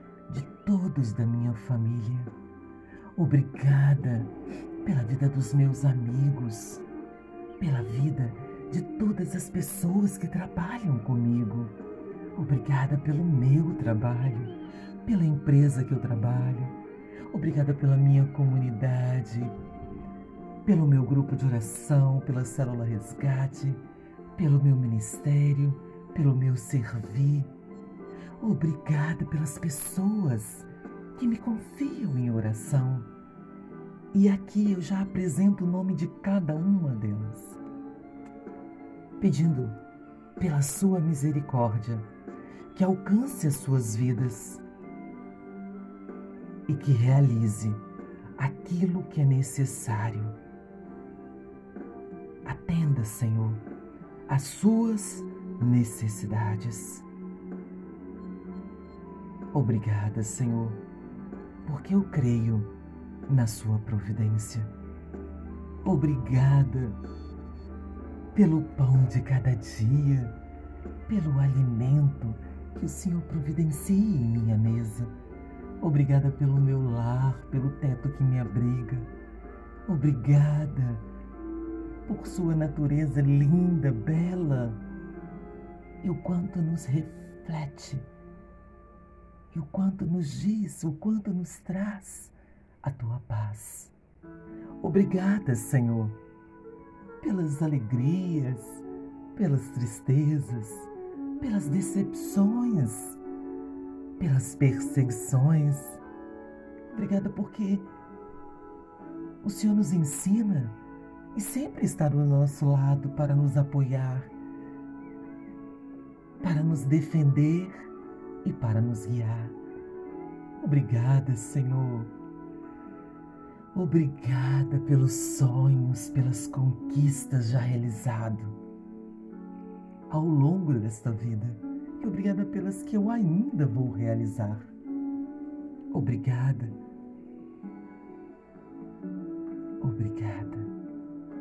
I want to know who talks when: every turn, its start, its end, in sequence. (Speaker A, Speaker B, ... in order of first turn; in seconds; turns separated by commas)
Speaker A: 0.3-2.3, Speaker A: 3.1-6.8, Speaker A: 7.6-11.7, Speaker A: 12.3-16.8, Speaker A: 17.3-19.5, Speaker A: 20.6-23.8, Speaker A: 24.4-27.5, Speaker A: 28.4-33.1, Speaker A: 34.1-37.6, Speaker A: 39.2-39.8, Speaker A: 40.4-42.1, Speaker A: 42.7-44.6, Speaker A: 46.7-47.8, Speaker A: 48.4-50.4, Speaker A: 52.4-53.6, Speaker A: 54.3-57.0, Speaker A: 59.5-60.8, Speaker A: 61.6-62.7, Speaker A: 63.3-64.7, Speaker A: 65.8-67.0, Speaker A: 68.3-70.4, Speaker A: 71.1-75.1, Speaker A: 75.8-79.1, Speaker A: 79.8-81.1, Speaker A: 82.0-84.8, Speaker A: 86.0-88.1, Speaker A: 89.5-93.9, Speaker A: 94.8-96.2, Speaker A: 97.2-103.2, Speaker A: 104.2-106.0, Speaker A: 106.9-107.9, Speaker A: 109.4-110.8, Speaker A: 111.3-114.3, Speaker A: 116.4-117.8, Speaker A: 118.4-119.6, Speaker A: 120.6-122.1, Speaker A: 123.7-128.6, Speaker A: 130.1-134.7, Speaker A: 135.9-136.8, Speaker A: 139.8-140.7